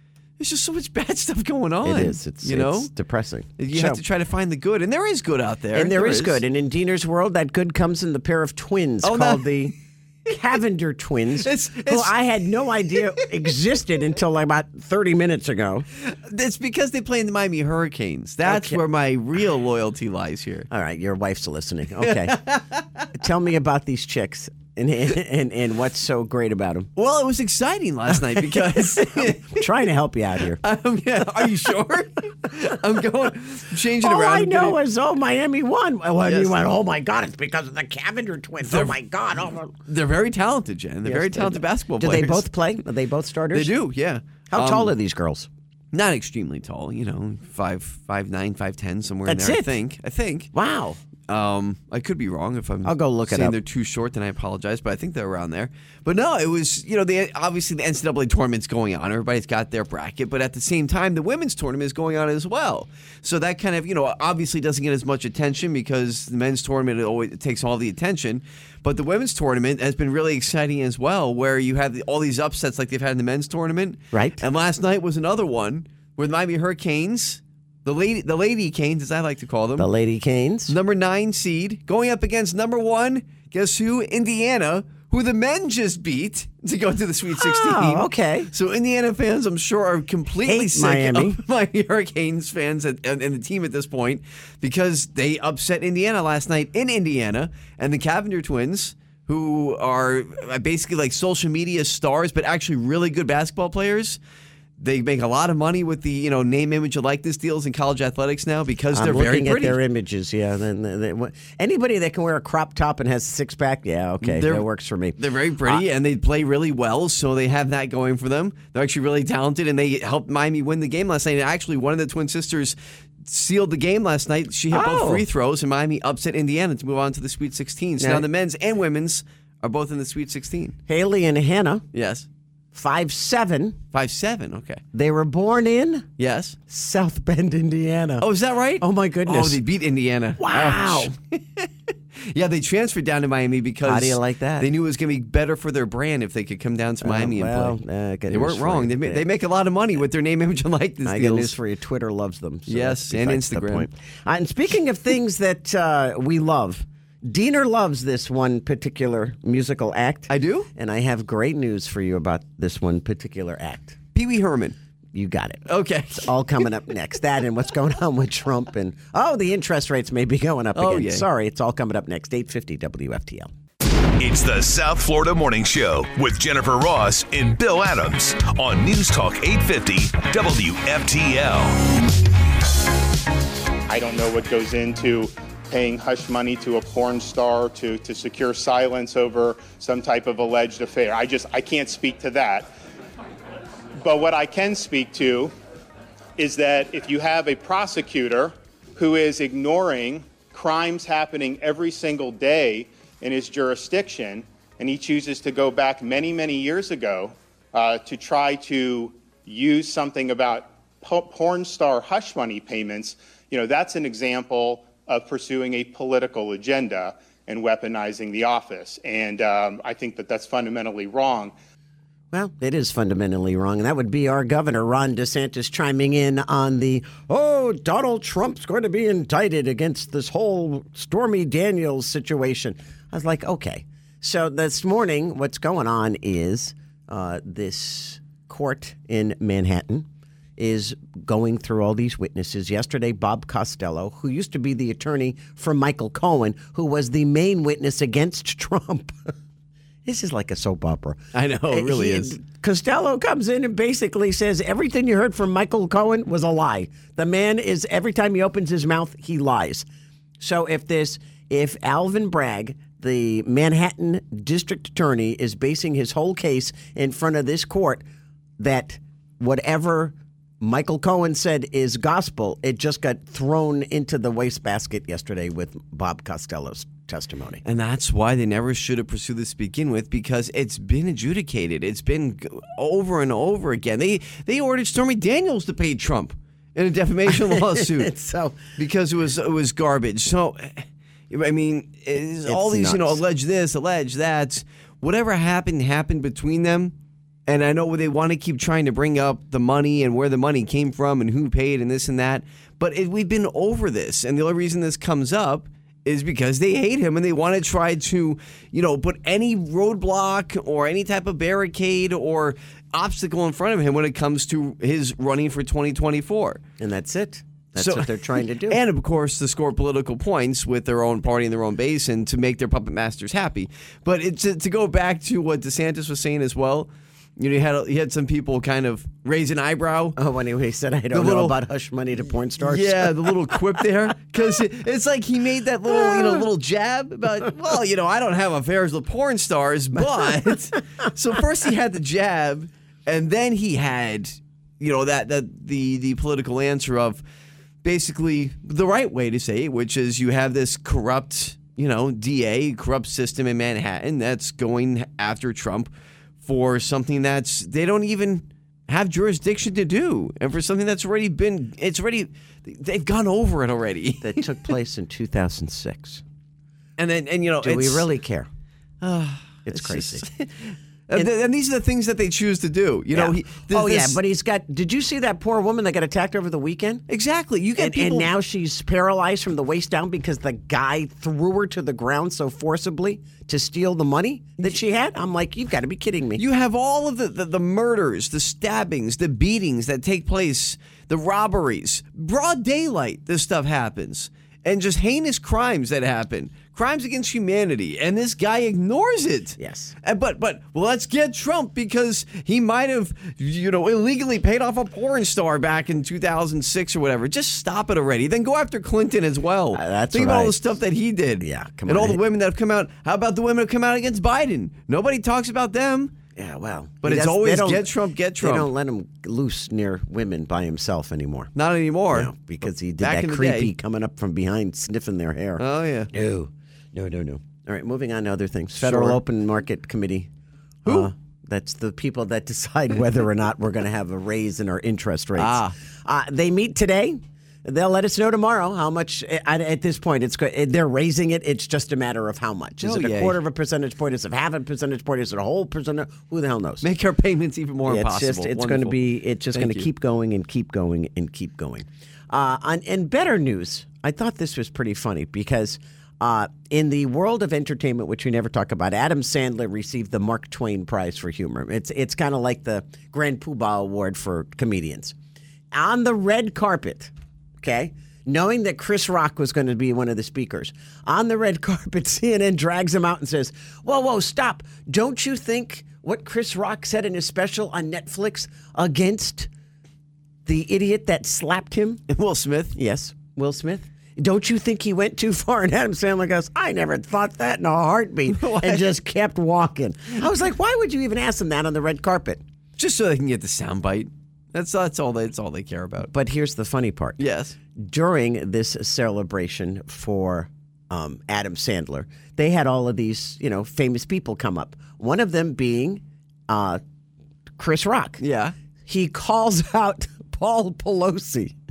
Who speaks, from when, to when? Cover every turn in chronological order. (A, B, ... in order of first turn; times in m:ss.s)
0:00.4-0:02.9 A
0:01.8-0:04.0 B
0:03.6-0:06.4 A
0:05.7-0:15.8 B
0:09.0-0:09.7 A
0:11.4-0:12.2 A
0:12.9-0:13.2 A
0:16.0-0:20.7 A
0:18.4-0:18.8 B
0:20.7-0:22.4 B
0:22.0-0:23.0 A
0:23.1-0:26.9 B
0:27.0-0:29.8 A
0:28.4-0:30.6 B
0:30.6-0:34.8 A
0:34.0-0:39.7 B
0:36.2-0:36.6 A
0:38.6-0:39.0 A
0:39.8-0:42.5 A
0:41.0-0:43.7 B
0:43.5-0:44.9 A
0:44.5-0:45.5 B
0:45.9-0:50.5 A
0:49.2-0:49.7 B
0:50.5-0:51.0 B
0:51.3-1:19.9 A
0:52.8-0:53.6 B
1:14.1-1:14.4 B
1:19.8-1:20.7 B
1:20.7-1:44.2 A
1:27.4-1:28.5 B
1:30.4-1:31.4 B
1:44.8-1:49.8 A
1:48.9-1:55.8 B
1:54.2-1:54.6 A
1:55.2-2:10.8 A
2:04.7-2:05.2 B
2:08.0-2:08.2 B
2:10.9-2:11.8 B
2:11.9-2:12.3 A
2:12.7-2:13.8 B
2:13.9-2:14.8 A
2:14.9-2:16.1 B
2:16.2-2:16.6 A
2:16.7-2:18.2 B
2:18.2-2:31.5 A
2:18.8-2:19.6 B
2:20.4-2:21.1 B
2:23.8-2:24.7 B
2:27.0-2:29.2 B
2:31.0-2:44.0 B
2:32.7-2:33.9 A
2:40.3-2:40.7 A
2:44.1-2:44.8 A
2:45.1-2:45.6 B
2:45.6-2:46.3 A
2:46.2-2:53.5 B
2:50.7-2:51.3 A
2:54.2-3:01.8 C
3:03.9-3:12.7 D
3:14.0-3:15.5 D
3:16.4-3:41.5 D
3:42.3-4:00.0 B
4:00.6-4:09.3 B
4:10.0-4:19.9 B
4:11.3-4:12.4 A
4:20.4-4:28.0 B
4:28.6-4:37.6 B
4:37.6-4:48.1 A
4:47.3-4:48.6 B
4:48.7-4:56.9 A
4:52.4-4:53.2 B
4:57.5-5:16.6 A
5:16.8-5:18.8 B
5:17.8-5:30.2 A
5:30.2-5:33.6 B
5:31.1-5:31.6 A
5:32.6-5:47.2 A
5:35.9-5:36.4 B
5:47.8-5:55.9 A
5:56.4-6:04.5 A
6:04.2-6:06.2 B
6:07.0-6:08.1 A
6:07.6-6:08.5 B
6:09.0-6:14.2 A
6:09.6-6:10.2 B
6:13.1-6:17.0 B
6:17.1-6:18.3 A
6:17.8-6:26.4 B
6:26.4-6:56.1 A
6:39.6-6:39.9 B
6:49.7-6:50.6 B
6:51.4-6:52.2 B
6:56.4-7:01.5 B
6:57.0-6:58.7 A
7:01.5-7:03.7 A
7:02.1-7:10.3 B
7:05.6-7:06.1 A
7:08.8-7:09.2 A
7:10.8-7:11.1 A
7:10.8-7:26.8 B
7:15.4-7:15.8 A
7:22.8-7:23.4 A
7:26.8-7:29.0 A
7:27.9-7:45.1 B
7:29.5-7:29.9 A
7:45.7-7:59.5 B
8:00.4-8:02.0 B
8:02.1-8:02.8 A
8:02.7-8:12.4 B
8:08.3-8:08.9 A
8:12.8-8:16.1 A
8:16.1-8:17.2 B
8:17.2-8:17.6 A
8:17.7-8:26.8 B
8:27.6-8:28.2 B
8:28.2-8:28.5 A
8:28.8-8:31.5 B